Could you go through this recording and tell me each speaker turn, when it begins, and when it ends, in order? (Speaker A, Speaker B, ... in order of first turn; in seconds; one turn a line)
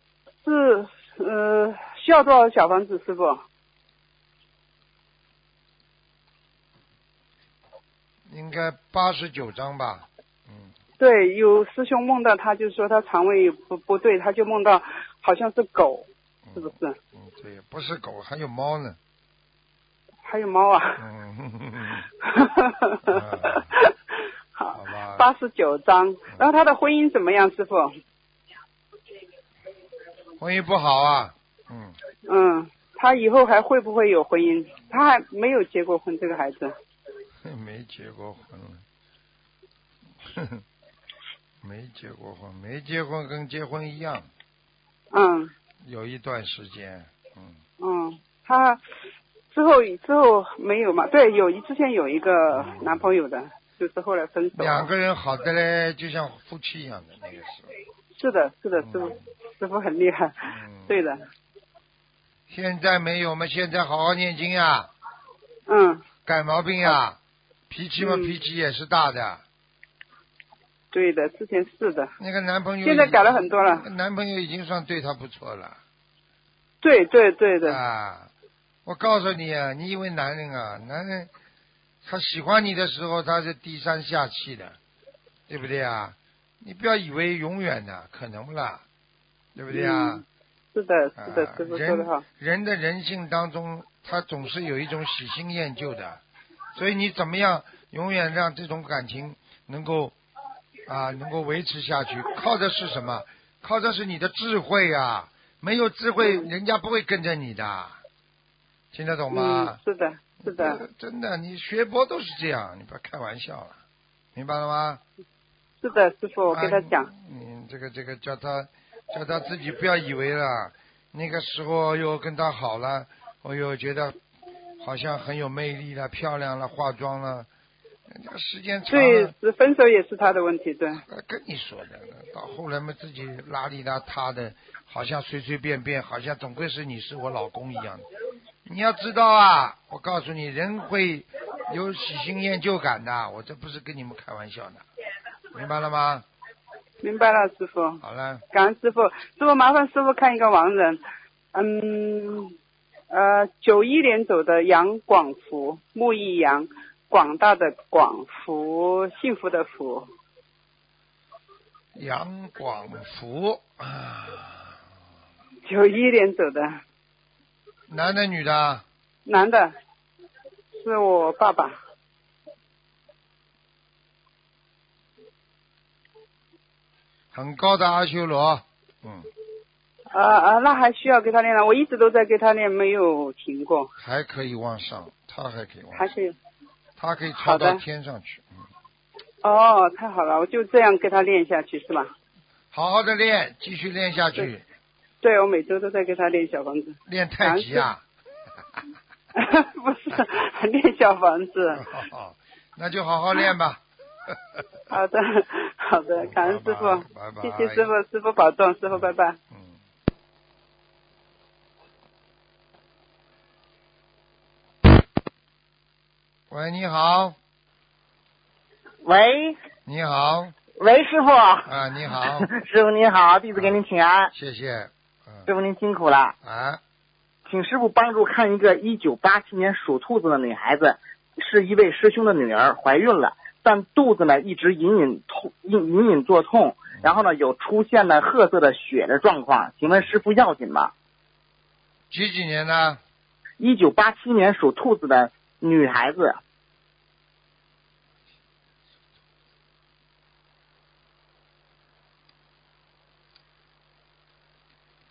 Speaker A: 0.4-3.4
Speaker B: 8.3-10.7
Speaker A: 11.0-16.9
Speaker B: 16.4-19.0
Speaker A: 20.2-21.0
Speaker B: 21.0-22.1
Speaker A: 22.3-23.9
Speaker B: 23.1-23.7
Speaker A: 24.5-28.0
Speaker B: 24.7-25.3
Speaker B: 30.4-31.9
Speaker A: 32.3-36.7
Speaker B: 37.4-38.8
Speaker B: 40.2-40.6
Speaker B: 41.6-44.3
Speaker A: 45.1-45.5
Speaker B: 45.8-47.6
Speaker A: 47.8-48.8
Speaker A: 49.5-54.9
Speaker B: 52.5-53.1
Speaker B: 54.5-57.7
Speaker A: 58.2-61.2
Speaker B: 58.8-59.2
Speaker B: 60.4-60.9
Speaker B: 62.5-64.9
Speaker A: 65.7-66.0
Speaker B: 66.2-67.2
Speaker B: 67.7-69.4
Speaker A: 68.0-68.3
Speaker A: 70.9-72.1
Speaker B: 72.2-75.8
Speaker A: 72.8-73.9
Speaker A: 76.8-77.8
Speaker B: 77.6-78.3
Speaker B: 78.8-81.3
Speaker B: 82.0-84.8
Speaker B: 85.5-88.8
Speaker B: 89.5-90.2
Speaker A: 89.7-90.2
Speaker A: 90.7-92.2
Speaker B: 91.2-96.2
Speaker B: 96.7-100.1
Speaker B: 100.8-108.0
Speaker B: 108.9-109.8
Speaker A: 109.3-110.8
Speaker B: 110.4-113.8
Speaker B: 114.3-115.0
Speaker A: 115.8-117.1
Speaker B: 116.5-124.1
Speaker B: 124.8-127.5
Speaker B: 128.1-129.3
Speaker A: 128.9-131.0
Speaker B: 131.1-138.1
Speaker B: 138.6-144.8
Speaker B: 145.5-146.2
Speaker A: 147.0-151.0
Speaker B: 148.0-148.4
Speaker A: 151.5-152.6
Speaker A: 153.1-160.1
Speaker B: 161.9-164.8
Speaker A: 165.6-166.8
Speaker B: 167.9-168.8
Speaker A: 169.2-169.7
Speaker A: 170.8-171.8
Speaker B: 177.3-179.3
Speaker A: 180.1-183.9
Speaker B: 184.0-186.1
Speaker A: 185.9-186.3
Speaker B: 187.0-188.7
Speaker A: 187.4-187.8
Speaker A: 189.4-192.1
Speaker B: 192.7-194.6
Speaker A: 195.2-197.8
Speaker B: 197.1-198.0
Speaker A: 199.3-201.8
Speaker B: 201.8-204.7
Speaker A: 204.9-209.4
Speaker B: 206.2-207.9
Speaker B: 208.9-209.8
Speaker B: 216.5-217.4
Speaker C: 219.0-219.6
Speaker B: 219.8-220.6
Speaker C: 220.8-221.7
Speaker B: 221.6-222.5
Speaker C: 222.2-224.3
Speaker B: 223.5-223.8
Speaker B: 224.3-225.5
Speaker C: 225.5-226.3
Speaker B: 226.4-226.8
Speaker C: 227.4-240.9
Speaker B: 242.1-243.0
Speaker C: 243.6-246.4